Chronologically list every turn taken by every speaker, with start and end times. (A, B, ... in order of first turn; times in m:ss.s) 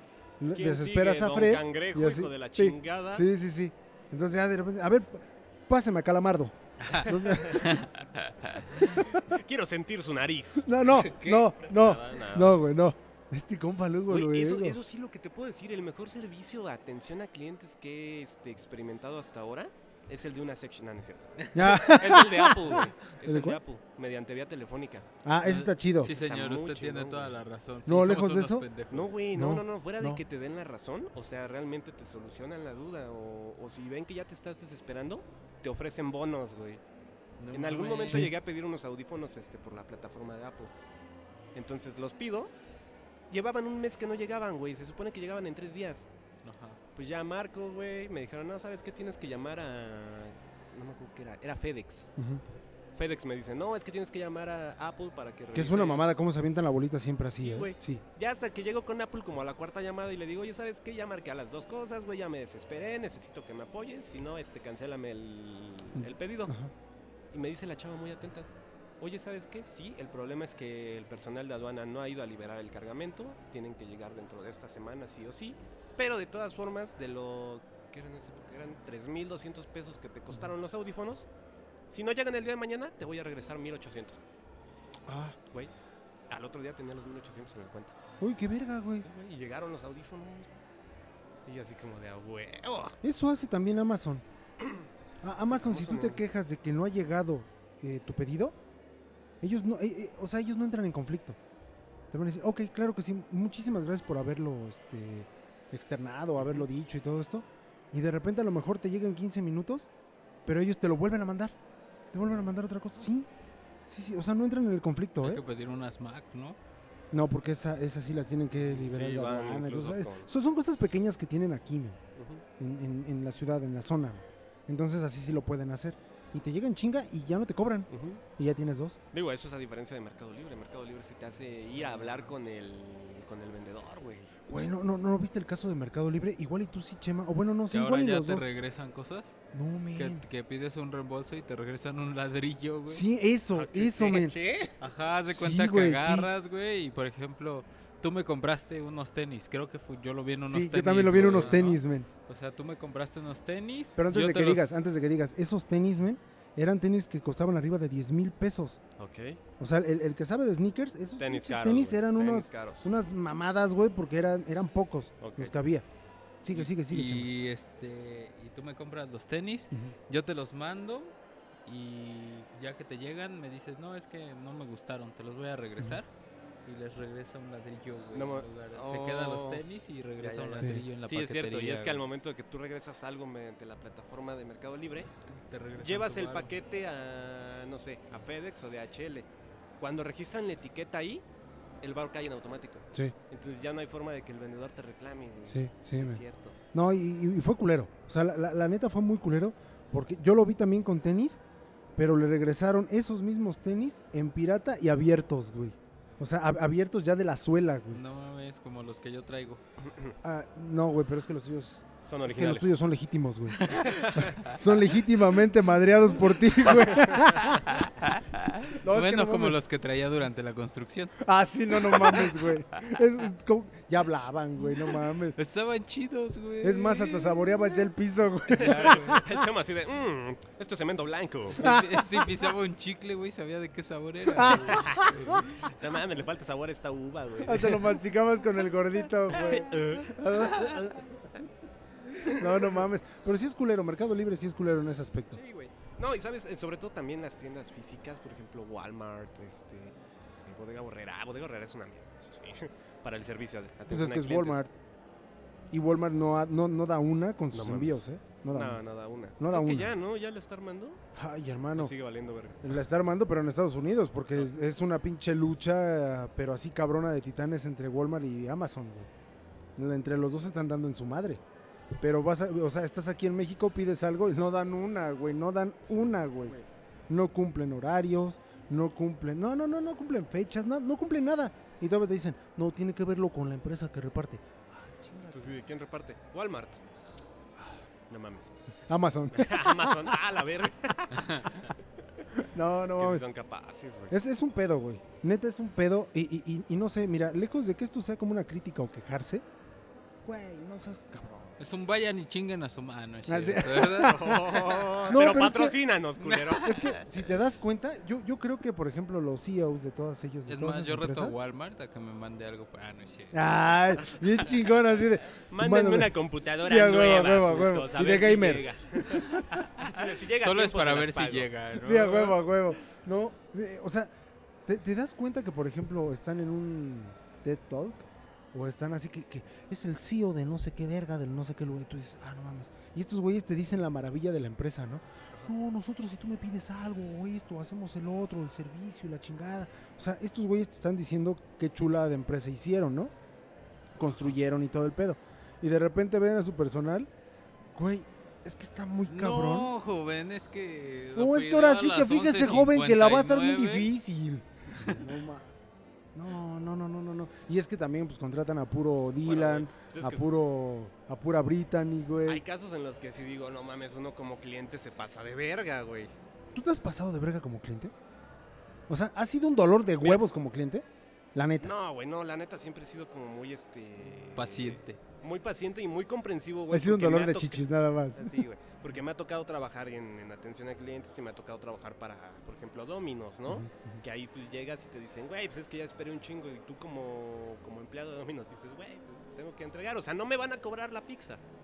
0:00.4-0:07.8 A
0:00.5-0:03.2 B
0:06.8-0:09.0 C
0:07.1-0:07.7 B
0:09.0-0:10.7 B
0:10.6-0:14.8 A
0:11.0-0:11.5 C
0:11.6-0:12.6 B
0:14.1-0:25.1 B
0:21.5-0:23.6 A
0:25.2-0:26.1 A
0:25.4-0:29.2 C
0:26.0-0:27.4 B
0:27.9-0:28.7 A
0:28.9-0:36.8 B
0:29.3-0:30.2 A
0:37.4-0:38.3 C
0:37.5-0:40.7 B
0:38.1-0:38.3 A
0:41.6-0:42.5 B
0:43.3-0:46.1 B
0:46.4-0:46.8 C
0:47.0-0:52.1 B
0:52.2-0:52.4 A
0:53.0-0:56.0 B
0:55.5-0:58.0 A
0:57.4-1:06.6 B
1:06.0-1:06.7 A
1:07.3-1:08.5 B
1:09.0-1:21.3 B
1:21.9-1:24.2 B
1:25.1-1:25.4 A
1:26.3-1:28.0 B
1:28.2-1:29.1 A
1:29.1-1:30.5 B
1:31.5-1:33.0 B
1:33.0-1:34.2 A
1:35.2-1:38.6 A
1:35.5-1:36.2 B
1:39.4-1:41.4 A
1:42.1-1:49.9 A
1:46.4-1:46.6 B
1:50.5-1:51.6 A
1:52.1-1:53.3 A
1:53.9-1:55.4 A
1:55.2-1:56.6 C
1:57.1-2:02.0 A
1:58.6-2:00.3 B
2:02.2-2:02.4 B
2:02.6-2:09.0 A
2:07.9-2:08.2 B
2:09.1-2:14.3 B
2:12.0-2:12.3 A
2:14.5-2:18.5 A
2:17.7-2:19.4 C
2:19.5-2:20.2 A
2:20.0-2:23.0 C
2:22.9-2:24.4 A
2:23.6-2:24.8 B
2:24.8-2:34.8 C
2:25.3-2:26.3 A
2:30.5-2:32.1 A
2:31.2-2:31.6 B
2:34.0-2:38.8 A
2:39.0-2:39.4 B
2:39.6-2:45.9 A
2:41.2-2:42.9 B
2:45.2-2:45.6 B
2:46.4-2:47.3 A
2:46.5-2:51.1 C
2:51.7-2:56.1 C
2:56.7-3:02.0 C
2:58.1-2:59.6 B
3:00.2-3:05.1 B
3:00.6-3:00.8 A
3:05.3-3:06.5 C
3:05.8-3:09.2 B
3:09.8-3:11.2 B
3:11.8-3:16.6 B
3:15.5-3:16.2 A
3:16.7-3:21.4 A
3:22.0-3:28.0 A
3:27.9-3:29.6 C
3:29.8-3:30.2 B
3:30.2-3:37.7 A
3:32.1-3:32.8 B
3:33.7-3:34.4 B
3:33.7-3:34.2 C
3:37.6-3:41.2 C
3:38.8-3:39.6 A
3:41.2-3:45.4 A
3:41.8-3:42.3 C
3:45.4-3:47.5 C
3:46.6-3:49.4 A
3:48.5-3:51.6 B
3:48.6-3:49.2 C
3:51.6-3:55.5 C
3:51.6-3:52.3 A
3:54.4-3:55.4 A
3:54.7-3:58.0 B
3:57.4-4:01.2 A
3:59.3-4:00.2 B
4:02.2-4:02.8 B
4:02.3-4:05.4 A
4:05.3-4:09.9 B
4:10.5-4:14.6 B
4:13.9-4:14.7 A
4:15.7-4:18.8 A
4:17.5-4:21.0 B
4:19.4-4:20.0 A
4:21.2-4:21.9 A
4:21.8-4:22.7 B
4:22.6-4:29.1 A
4:29.8-4:31.4 A
4:32.0-4:36.6 A
4:35.9-4:36.6 B
4:37.1-4:45.5 A
4:45.3-4:46.8 B
4:48.1-4:48.6 B
4:48.9-4:50.2 A
4:49.3-4:51.7 B
4:51.2-4:51.5 C
4:52.4-4:53.2 A
4:53.0-4:54.2 B
4:54.1-4:59.4 A
5:00.2-5:01.6 A
5:01.6-5:04.6 C
5:03.3-5:05.8 A
5:03.9-5:06.8 B
5:06.2-5:07.2 C
5:06.6-5:11.4 A
5:10.5-5:13.4 C
5:13.3-5:18.7 A
5:15.4-5:21.5 B
5:19.3-5:22.4 C
5:21.8-5:24.1 A
5:24.7-5:43.1 A
5:44.0-5:47.1 A
5:47.7-5:49.7 A
5:49.1-5:53.9 C
5:51.2-5:55.5 A
5:56.2-6:02.4 A
5:59.2-6:00.3 B
6:02.3-6:06.1 B
6:06.5-6:07.9 A
6:08.9-6:11.7 A
6:11.6-6:31.4 B
6:14.4-6:15.0 C
6:16.7-6:18.4 A
6:23.5-6:24.0 A